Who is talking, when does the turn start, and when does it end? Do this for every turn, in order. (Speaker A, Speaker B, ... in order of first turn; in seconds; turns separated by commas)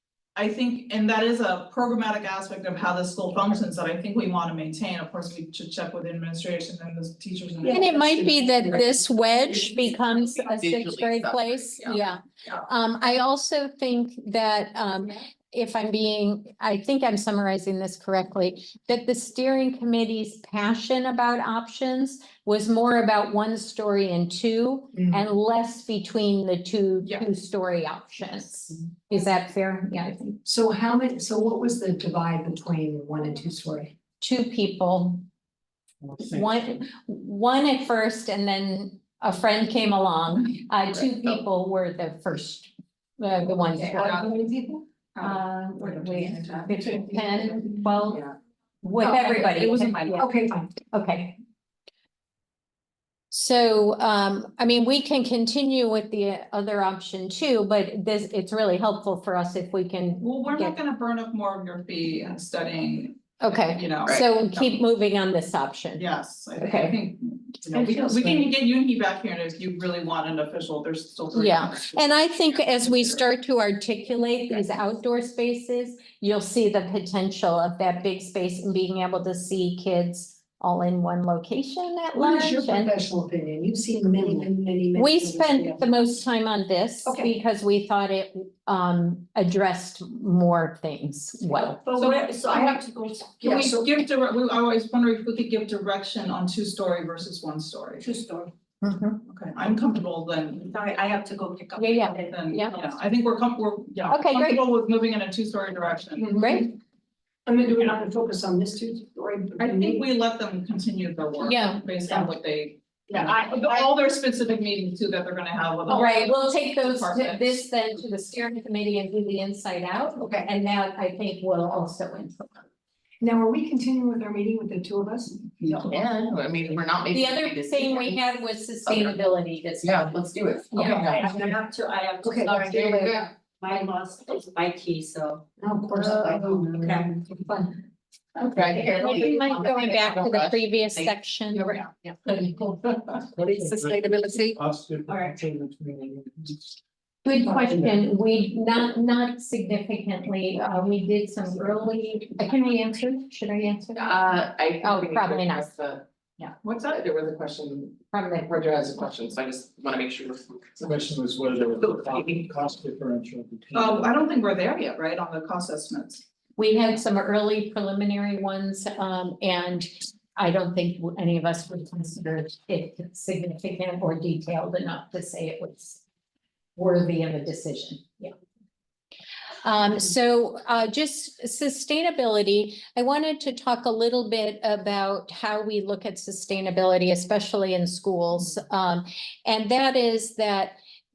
Speaker A: 0.3-8.1, Speaker B: 7.6-10.4, Speaker C: 7.7-30.4, Speaker D: 10.4-12.6, Speaker B: 24.9-25.2, Speaker B: 30.4-33.9, Speaker C: 34.2-35.2, Speaker E: 36.0-36.5, Speaker C: 36.2-44.3, Speaker D: 40.9-41.4, Speaker B: 43.8-47.9, Speaker C: 45.2-48.2, Speaker C: 48.8-51.4, Speaker B: 49.0-50.7, Speaker C: 53.3-60.8, Speaker A: 60.2-64.8, Speaker C: 63.4-66.0, Speaker A: 66.0-72.1, Speaker C: 66.6-67.0, Speaker B: 67.7-68.5, Speaker C: 71.3-82.9, Speaker B: 82.1-85.9, Speaker C: 85.0-91.8, Speaker B: 87.0-87.3, Speaker F: 91.6-93.8, Speaker B: 93.4-93.9, Speaker A: 93.4-98.0, Speaker F: 98.0-98.5, Speaker C: 98.8-99.2, Speaker A: 99.3-100.7, Speaker F: 100.6-103.0, Speaker C: 101.8-102.7, Speaker A: 102.2-106.3, Speaker C: 104.1-104.6, Speaker B: 106.2-106.8, Speaker C: 106.3-106.7, Speaker B: 107.5-110.1, Speaker A: 109.6-117.6, Speaker C: 111.4-111.9, Speaker C: 115.9-122.6, Speaker D: 120.2-120.5, Speaker B: 123.2-125.5, Speaker D: 125.6-128.2, Speaker C: 127.1-130.1, Speaker D: 128.8-131.4, Speaker F: 130.7-137.2, Speaker B: 130.8-131.3, Speaker B: 132.2-132.6, Speaker D: 132.5-133.3, Speaker B: 135.6-137.8, Speaker D: 138.4-141.1, Speaker C: 138.6-141.8, Speaker E: 143.5-146.6, Speaker D: 143.6-144.5, Speaker F: 145.1-145.4, Speaker C: 147.2-155.7, Speaker D: 153.9-156.0, Speaker D: 156.8-161.1, Speaker C: 158.1-158.5, Speaker E: 160.8-164.1, Speaker D: 161.7-162.4, Speaker A: 163.7-166.2, Speaker C: 166.6-176.0, Speaker C: 176.8-178.3, Speaker C: 179.6-190.8